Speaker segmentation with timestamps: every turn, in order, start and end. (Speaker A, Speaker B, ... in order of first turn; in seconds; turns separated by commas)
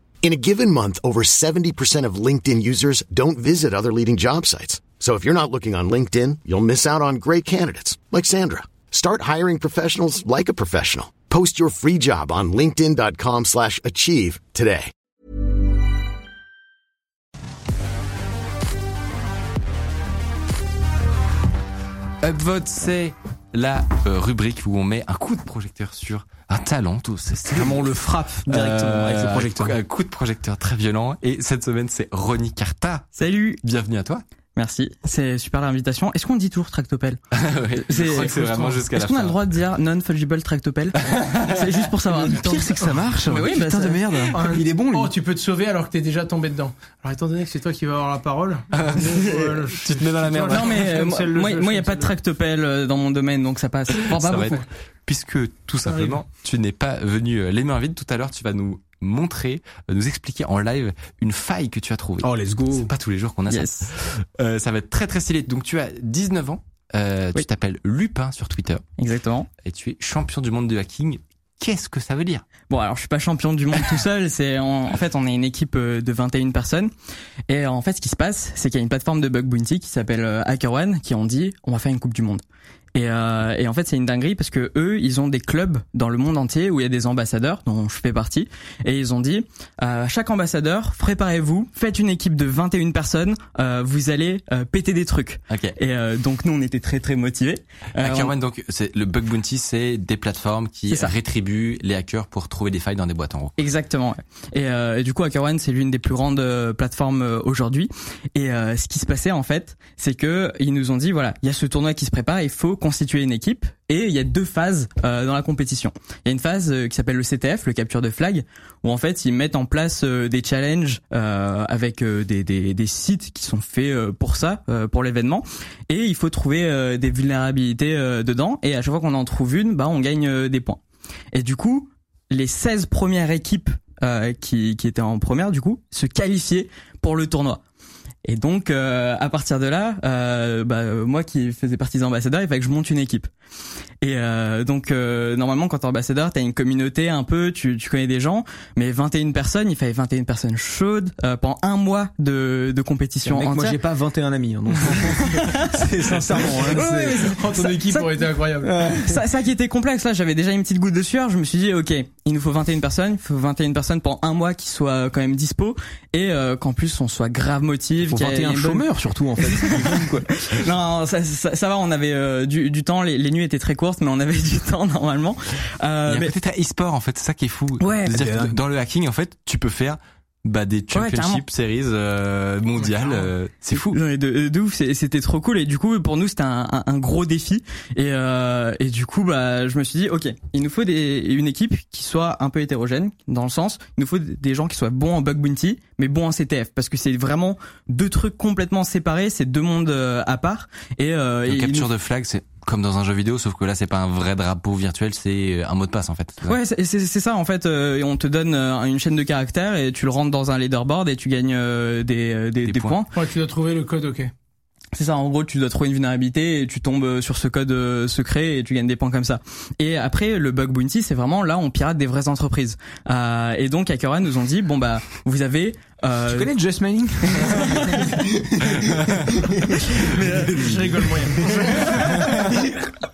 Speaker A: 0.2-14.9, Speaker B: 22.2-28.0, Speaker C: 27.5-29.8, Speaker B: 28.5-34.2, Speaker D: 33.2-33.6, Speaker D: 34.6-37.2, Speaker B: 37.3-39.5, Speaker D: 37.9-44.3, Speaker B: 41.0-41.6, Speaker C: 42.1-45.1, Speaker E: 44.3-52.1, Speaker B: 48.8-50.9, Speaker D: 50.5-54.6, Speaker B: 54.1-68.8, Speaker E: 55.9-56.2, Speaker C: 62.2-62.9, Speaker D: 63.5-63.9, Speaker D: 69.0-69.5, Speaker B: 69.6-72.5, Speaker D: 72.7-76.9, Speaker D: 77.5-82.4, Speaker D: 83.0-98.3, Speaker B: 95.5-95.8, Speaker B: 98.0-103.6, Speaker D: 103.6-130.8, Speaker D: 131.3-137.6, Speaker D: 138.2-143.3, Speaker D: 144.0-153.8, Speaker C: 153.2-157.4, Speaker D: 154.8-158.1, Speaker E: 157.2-158.7, Speaker C: 158.6-159.2, Speaker D: 158.8-168.9, Speaker C: 168.1-170.3, Speaker D: 169.5-176.3, Speaker B: 176.1-184.0, Speaker D: 177.8-178.2, Speaker C: 178.1-178.6, Speaker D: 180.9-181.4, Speaker E: 182.8-183.3, Speaker D: 183.7-201.9, Speaker B: 201.5-206.6, Speaker D: 206.4-213.1, Speaker B: 212.6-213.0, Speaker E: 213.1-214.3, Speaker D: 214.9-226.5, Speaker C: 226.3-229.7, Speaker D: 227.3-228.2, Speaker D: 230.0-230.6, Speaker E: 230.4-232.4, Speaker D: 232.0-232.3